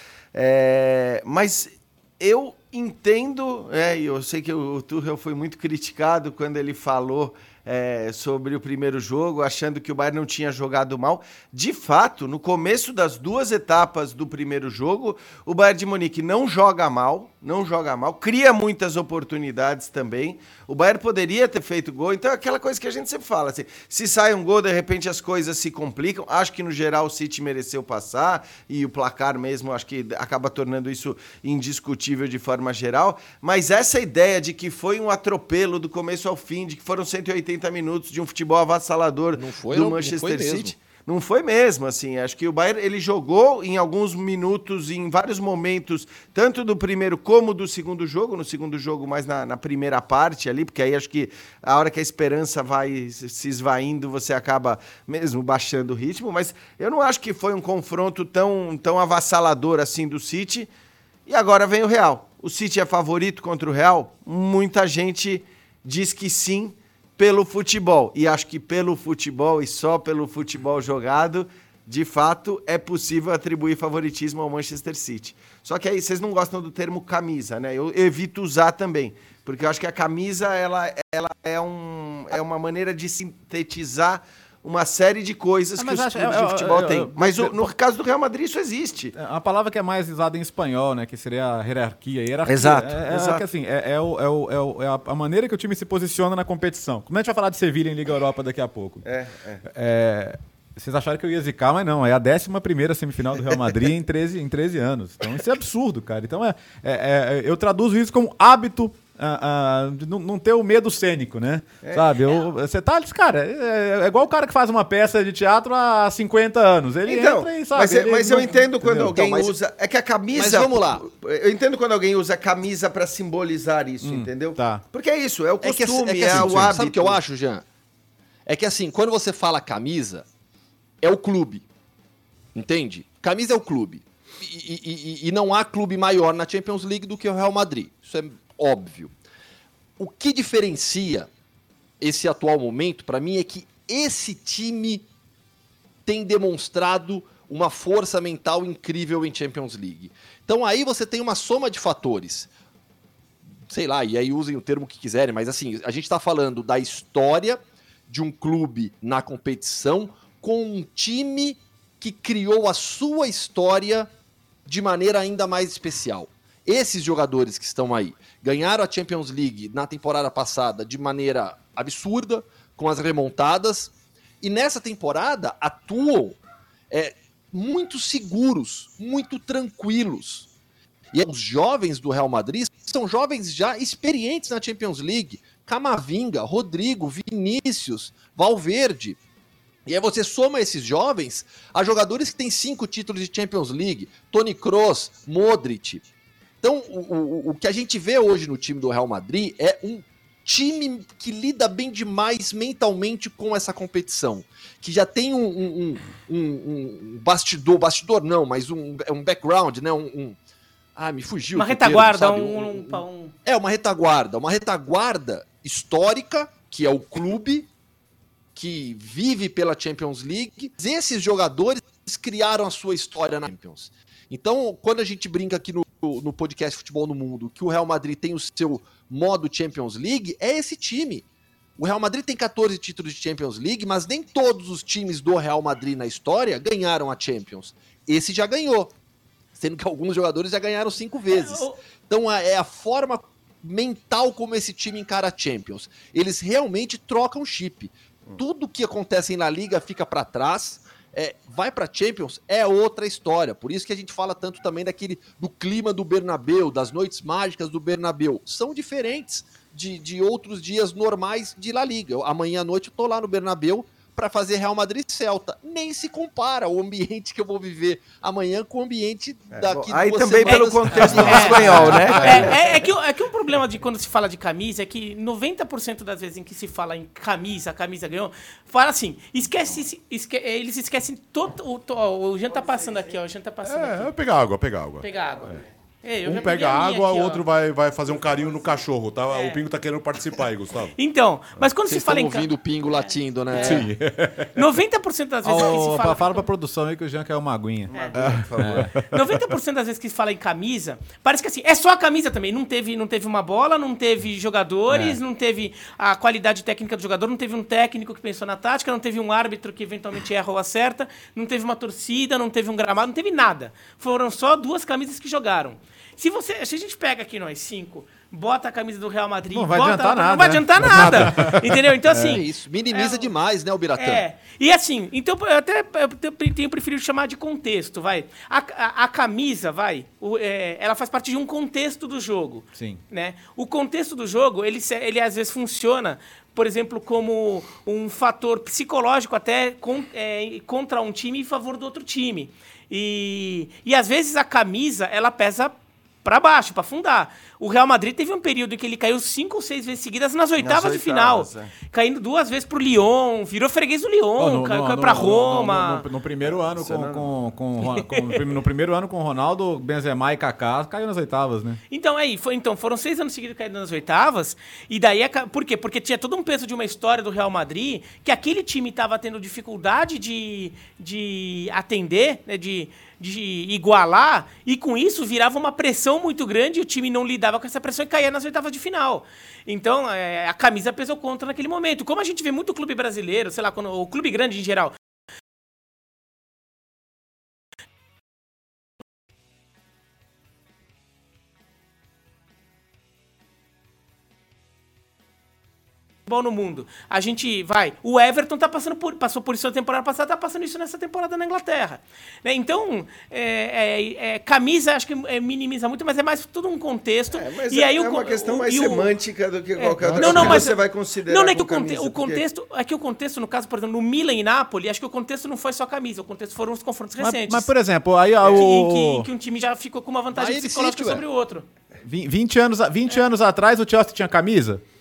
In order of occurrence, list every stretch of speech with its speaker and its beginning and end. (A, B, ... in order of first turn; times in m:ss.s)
0:00.3-1:00.7 A
0:39.4-0:40.7 B
1:01.3-1:29.2 A
1:25.8-1:27.7 C
1:29.2-1:39.0 C
1:32.5-1:33.4 A
1:39.0-1:39.6 A
1:39.7-1:59.1 C
1:51.8-1:52.1 A
1:57.0-2:07.2 A
1:59.0-1:59.5 B
2:00.4-2:01.0 B
2:04.0-2:04.8 C
2:05.6-2:07.6 B
2:08.5-2:10.2 B
2:11.0-2:11.6 B
2:12.6-2:19.1 B
2:20.0-2:21.3 B
2:22.0-2:25.1 B
2:26.1-2:32.5 B
2:33.7-2:44.1 B
2:44.7-2:56.4 B
2:56.9-3:00.5 B
3:01.1-3:09.2 B
3:09.9-3:16.0 B
3:16.6-3:30.4 B
3:31.0-3:37.7 B
3:31.5-3:33.3 D
3:38.6-3:51.2 B
3:51.8-3:58.9 B
3:59.6-4:31.9 B
4:01.3-4:01.8 D
4:29.5-4:32.6 A
4:30.5-4:31.6 D
4:31.1-4:32.2 C
4:32.2-4:44.1 D
4:43.6-4:45.6 E
4:45.0-4:47.5 D
4:46.2-4:51.0 E
4:49.3-4:49.6 D
4:51.0-4:53.9 D
4:51.8-4:53.9 B
4:53.6-4:54.6 E
4:54.5-4:56.5 D
4:55.4-4:57.9 C
4:57.9-4:58.9 A
4:58.2-4:59.5 E
4:58.6-4:58.9 C
4:59.1-5:23.3 D
5:04.9-5:05.2 C
5:19.5-5:22.4 C
5:20.8-5:21.7 E
5:22.2-5:24.2 B
5:24.0-5:56.1 D
5:32.8-5:33.0 C
5:50.6-5:51.7 A
5:54.4-6:01.8 C
5:56.4-5:57.3 A
5:57.9-5:58.4 D
6:01.9-6:24.9 D
6:36.3-6:49.1 D
6:47.3-6:52.4 A
6:49.8-6:57.7 D
6:50.0-6:50.6 C
6:57.2-6:59.3 C
6:58.5-7:01.7 D
7:00.4-7:01.2 B
7:02.0-7:04.8 C